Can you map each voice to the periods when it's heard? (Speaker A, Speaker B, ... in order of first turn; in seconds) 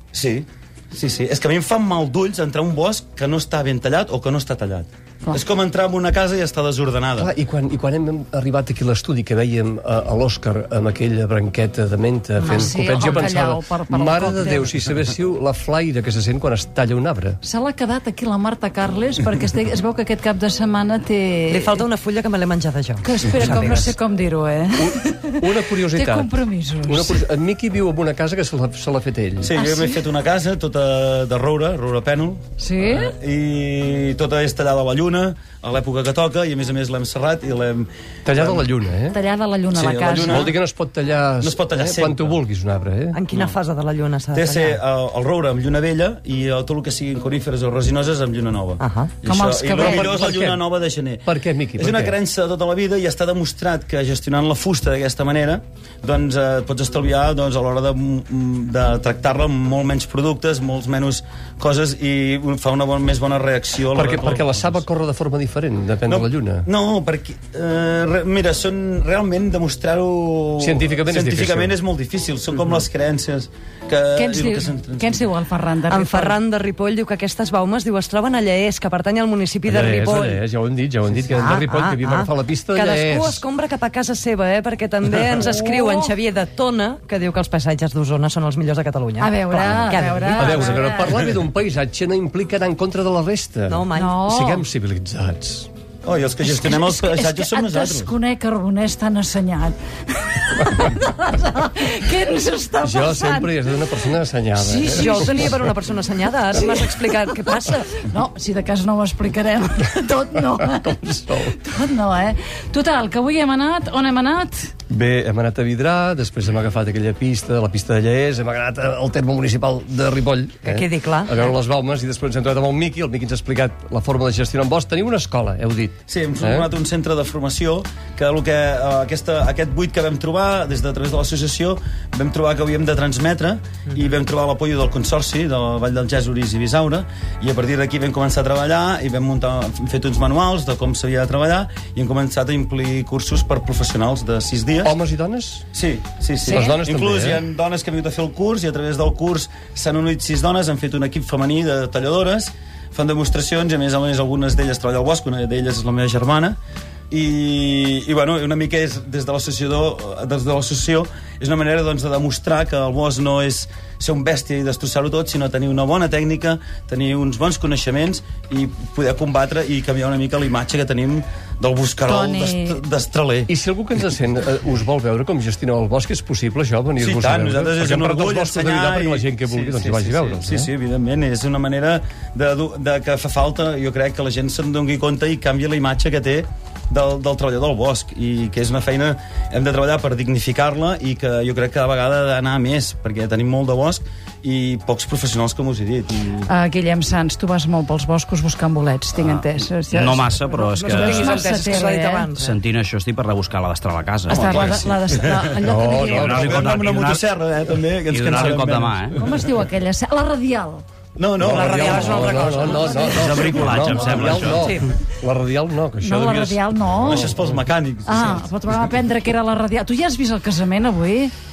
Speaker A: 0.1-7.3, 29.4-38.6, 39.7-40.5, 41.4-42.4, 44.3-64.8, 66.1-75.2, 96.0-98.1, 126.1-145.0, 145.7-156.6, 157.1-173.5, 177.0-196.5, 204.3-205.7, 206.3-209.0, 211.2-212.3, 217.0-218.5
Speaker B: 7.2-17.4, 24.8-29.5, 38.2-39.2, 40.2-43.2, 49.8-50.7, 51.2-52.2, 63.9-66.7, 70.6-71.7, 79.7-83.5, 90.4-95.7, 102.8-105.6, 110.4-111.6, 114.9-126.7, 144.8-145.7, 146.4-147.4, 173.5-180.7, 205.7-206.7, 211.4-217.5
Speaker C: 12.4-14.7, 17.4-21.8, 23.0-27.2, 29.5-30.1, 32.6-33.1, 39.1-40.5, 49.2-50.2, 74.2-76.4, 85.3-86.1, 89.2-91.2, 94.0-94.6, 96.5-103.7, 104.6-105.5, 106.5-114.7, 172.1-172.8, 196.4-202.3, 204.3-206.5, 209.2-210.8, 216.0-217.3, 218.1-221.3
Speaker D: 21.5-23.9, 43.1-44.8, 48.8-49.1, 75.9-80.4, 81.2-90.8, 93.7-94.2, 104.7-107.9, 120.7-121.5, 200.5-202.6, 211.4-213.6, 214.4-214.9
Speaker E: 199.2-201.4, 202.4-204.9, 205.7-207.2, 208.0-209.2, 212.6-214.7